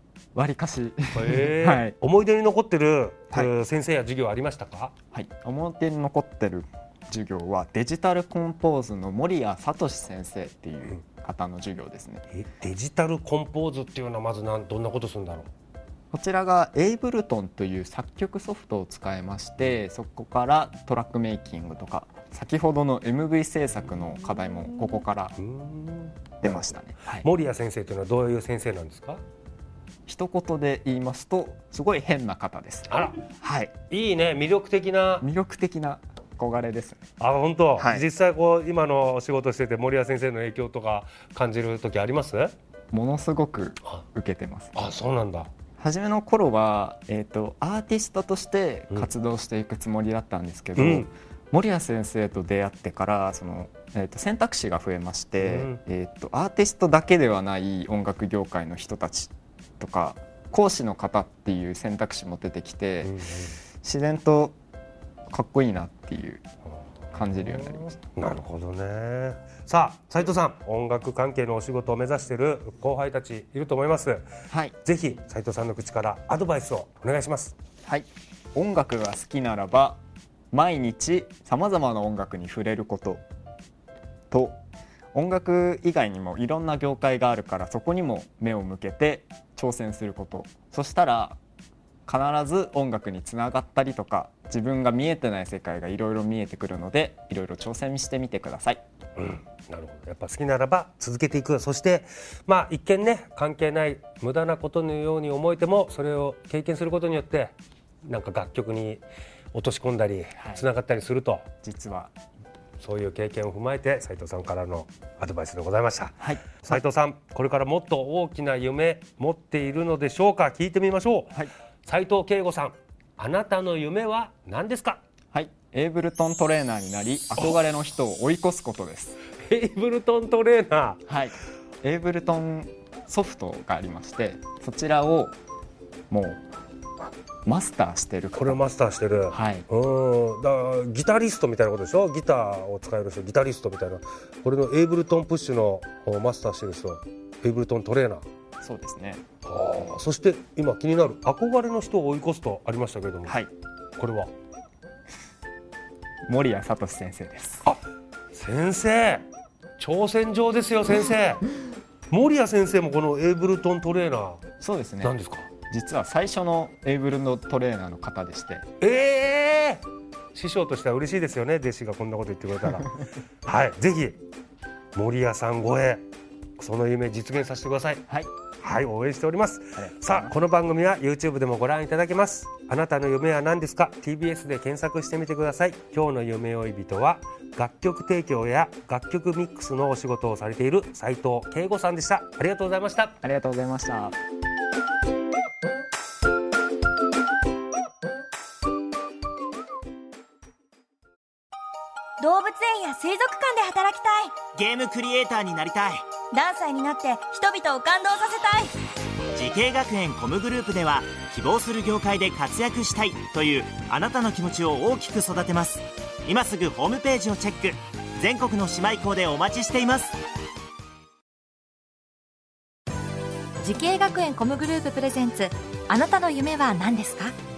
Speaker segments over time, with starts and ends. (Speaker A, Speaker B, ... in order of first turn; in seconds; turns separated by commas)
Speaker A: 0.3-1.9, Speaker B: 1.1-4.9, Speaker A: 5.1-12.2, Speaker B: 12.3-15.5, Speaker A: 16.1-25.3, Speaker B: 25.4-29.2, Speaker A: 26.4-27.3, Speaker A: 30.1-33.7, Speaker B: 32.9-33.2, Speaker B: 33.9-35.3, Speaker A: 35.2-37.1, Speaker B: 37.2-42.5, Speaker A: 37.8-38.0, Speaker A: 42.9-44.8, Speaker B: 44.7-45.5, Speaker A: 45.8-63.2, Speaker B: 50.8-51.1, Speaker B: 55.4-55.8, Speaker B: 63.0-63.6, Speaker A: 63.8-64.5, Speaker A: 65.3-66.4, Speaker A: 67.1-67.8, Speaker B: 67.2-74.2, Speaker A: 74.5-74.8, Speaker B: 74.8-77.5, Speaker A: 77.8-80.0, Speaker A: 80.5-83.2, Speaker A: 84.3-84.6, Speaker A: 85.1-91.4, Speaker A: 92.1-98.8, Speaker B: 99.2-111.4, Speaker A: 110.4-110.7, Speaker A: 111.6-112.1, Speaker B: 112.8-125.0, Speaker A: 116.2-116.8, Speaker A: 125.3-129.2, Speaker B: 129.4-131.0, Speaker A: 131.1-135.4, Speaker A: 136.1-136.4, Speaker A: 137.4-138.6, Speaker B: 138.3-148.2, Speaker A: 139.3-139.7, Speaker A: 148.6-149.2, Speaker B: 149.4-153.3, Speaker A: 153.2-153.5, Speaker B: 154.0-154.3, Speaker A: 156.3-157.7, Speaker B: 158.3-159.2, Speaker B: 159.8-161.5, Speaker B: 162.1-164.4, Speaker A: 164.6-168.7, Speaker B: 165.0-165.5, Speaker B: 168.8-172.9, Speaker B: 173.4-174.2, Speaker B: 174.9-176.0, Speaker B: 176.6-178.0, Speaker B: 178.6-193.1, Speaker A: 179.8-180.3, Speaker A: 193.2-194.2, Speaker C: 202.2-204.4, Speaker D: 204.5-206.0, Speaker C: 206.3-208.7, Speaker D: 209.3-220.2, Speaker E: 223.6-227.3